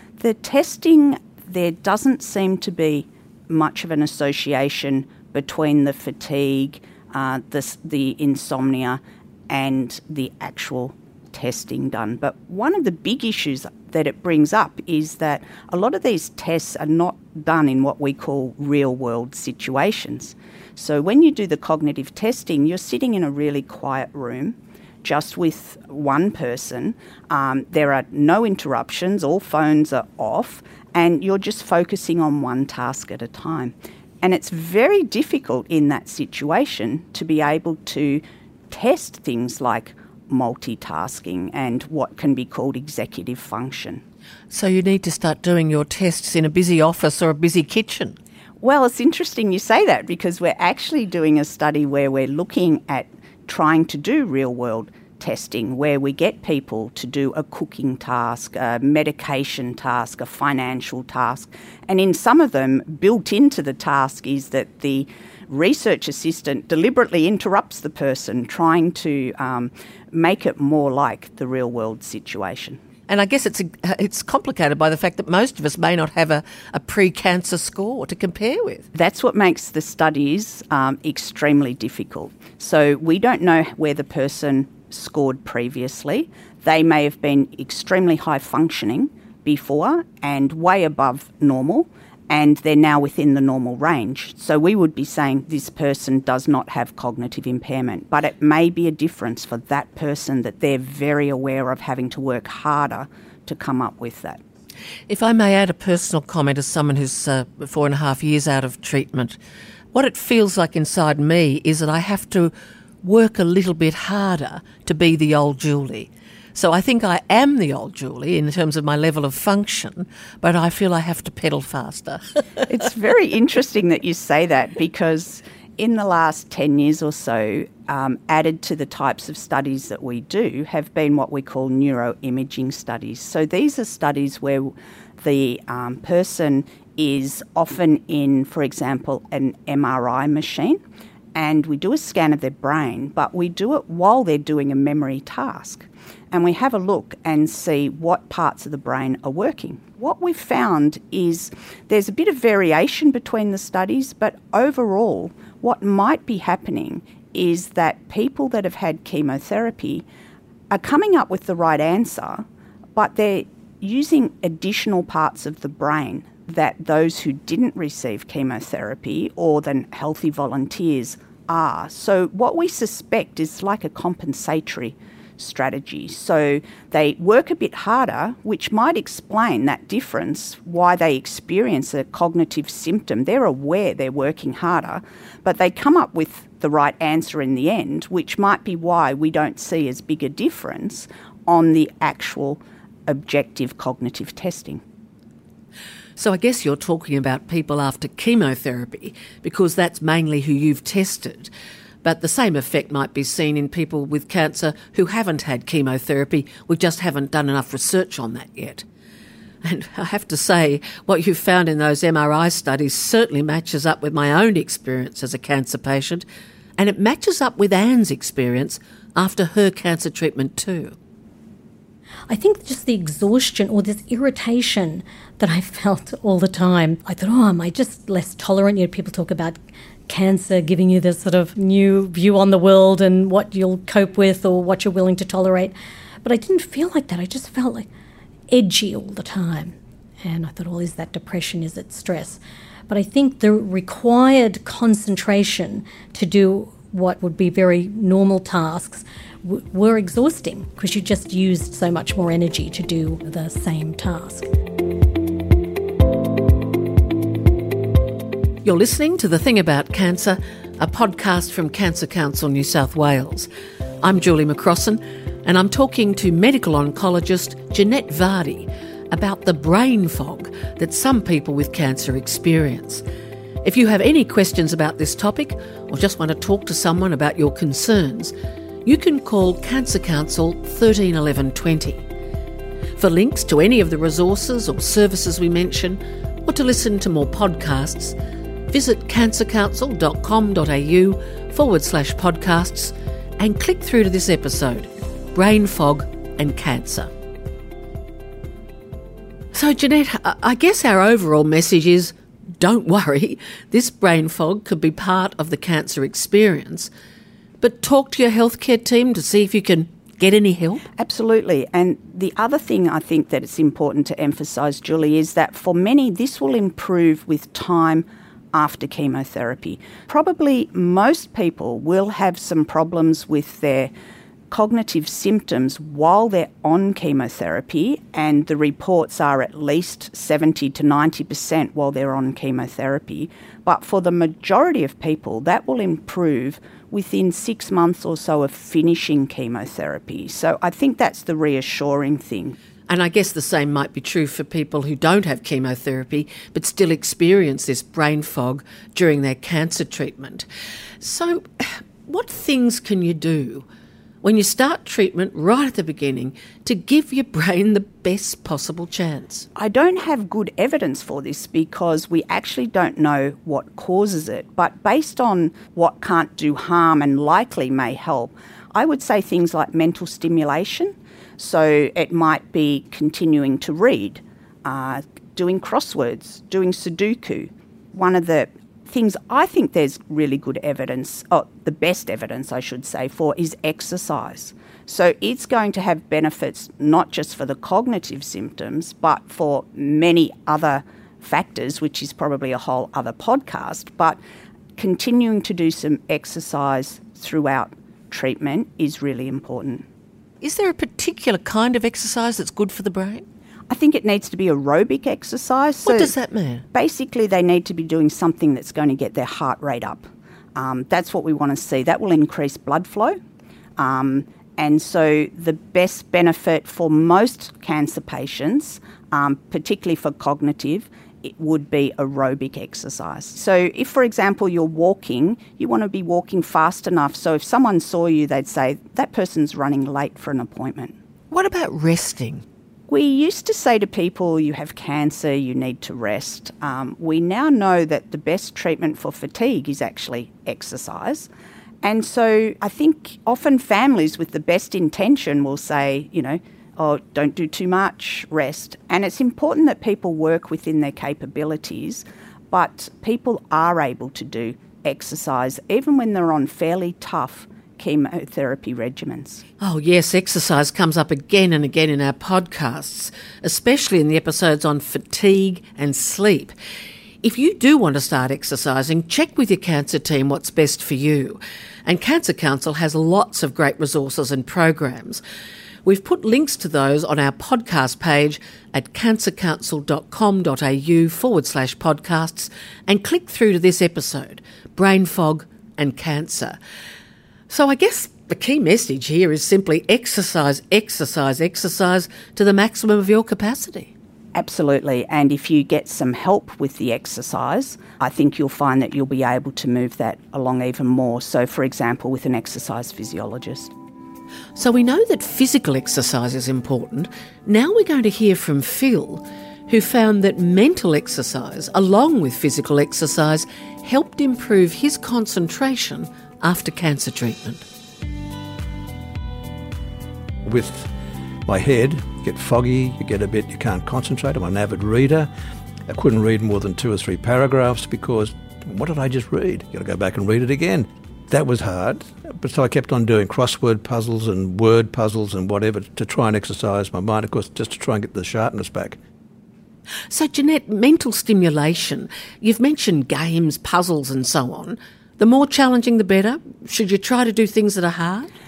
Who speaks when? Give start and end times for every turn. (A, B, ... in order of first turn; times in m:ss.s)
0:00.2-0:44.0 A
0:44.5-0:48.2 B
0:48.6-1:12.8 A
1:13.1-1:18.9 B
1:18.9-1:44.4 A
1:45.1-1:49.4 B
1:49.9-2:02.2 B
2:02.7-2:20.8 A
2:21.3-2:40.0 A
2:40.7-3:14.8 A
3:16.2-3:21.5 B
3:22.0-3:28.8 B
3:29.6-3:36.2 B
3:36.8-3:41.0 B
3:42.3-3:55.7 C
3:56.2-3:57.9 C
3:58.5-4:14.5 C
4:18.6-4:23.5 B
4:24.0-4:33.0 B
4:33.6-4:38.3 B
4:38.8-4:42.0 B
4:43.0-4:48.2 B
4:48.7-4:57.1 B
4:59.5-5:06.9 B
5:07.6-5:10.8 B
5:11.0-5:23.9 A
5:24.5-5:42.6 A
5:42.9-5:50.4 B
5:51.0-5:53.7 B
5:54.2-5:59.5 B
5:59.6-6:34.2 A
6:34.8-6:39.9 A
6:40.4-6:43.2 B
6:43.7-6:46.1 A
6:45.8-6:46.6 B
6:46.7-6:53.2 A
6:53.8-7:11.0 A
7:11.3-7:12.4 B
7:12.9-7:21.3 A
7:21.8-7:39.4 A
7:39.6-7:46.5 B
7:47.2-7:55.2 B
7:55.8-8:06.6 B
8:07.5-8:13.9 B
8:14.3-8:23.7 A
8:24.6-8:37.6 B
8:40.4-8:40.9 D
8:41.5-8:45.3 D
8:45.9-8:59.0 D
9:00.1-9:08.3 B